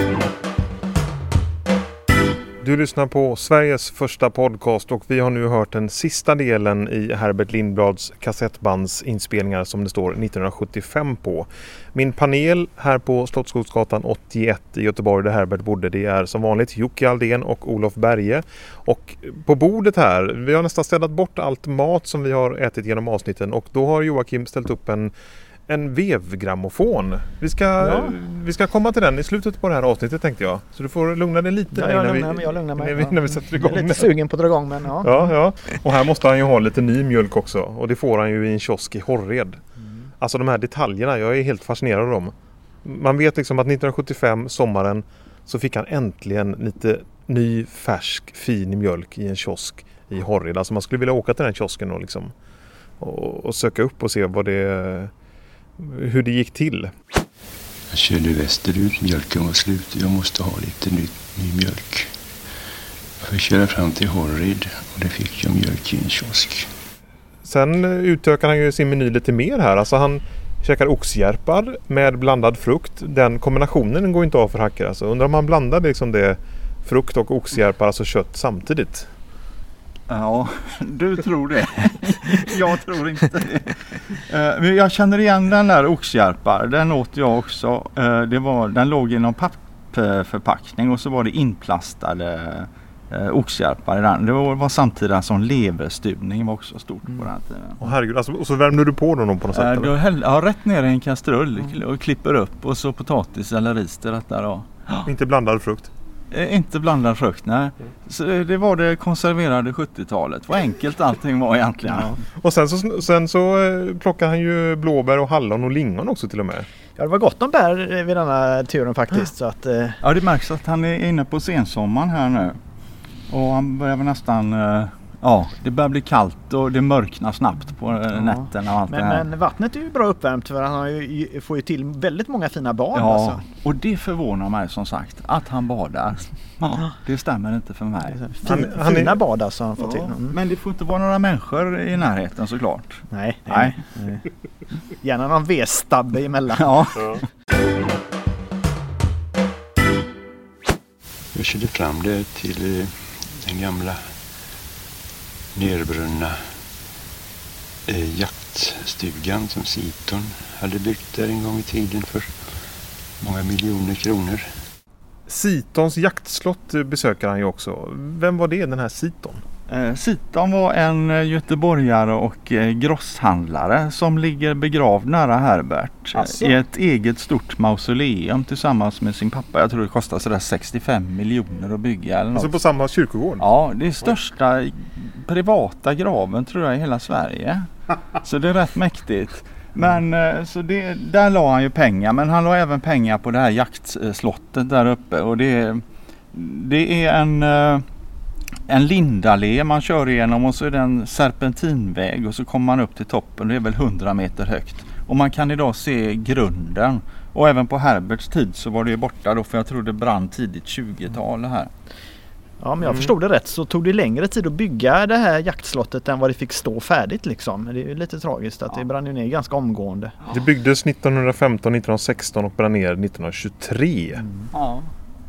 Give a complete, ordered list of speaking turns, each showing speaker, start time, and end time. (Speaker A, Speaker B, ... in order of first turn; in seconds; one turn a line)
Speaker A: 2.6-25.1
Speaker A: 25.7-34.1
Speaker B: 27.8-28.1
Speaker B: 31.7-35.3
Speaker A: 35.0-39.6
Speaker A: 40.2-52.4
Speaker A: 53.0-55.1
Speaker A: 55.8-56.9
Speaker C: 57.9-62.1
Speaker C: 63.2-66.7
Speaker A: 67.4-79.1
Speaker D: 80.1-97.8
Speaker A: 97.8-99.9
Speaker D: 99.5-105.1
Speaker A: 105.0-105.9
Speaker D: 106.3-112.2
Speaker A: 112.4-116.7
Speaker B: 117.0-120.0
Speaker D: 120.0-122.6
Speaker D: 123.3-129.2
Speaker B: 128.1-133.4
Speaker D: 132.9-138.3
Speaker B: 138.2-140.4
Speaker A: 138.5-139.2
Speaker D: 139.8-143.8
Speaker B: 143.1-144.2
Speaker B: 145.0-147.1
Speaker D: 146.5-147.2
Speaker C: 151.3-154.0
Speaker C: 155.5-156.4
Speaker C: 157.9-162.3
Speaker C: 163.2-164.5
Speaker A: 165.3-169.4
Speaker D: 169.7-182.6
Speaker A: 176.1-176.6
Speaker A: 182.3-183.5
Speaker D: 183.4-197.8
Speaker D: 198.7-211.7
Speaker B: 212.6-220.1
Speaker A: 220.3-224.2
Speaker B: 224.2-224.5
Speaker D: 224.5-224.9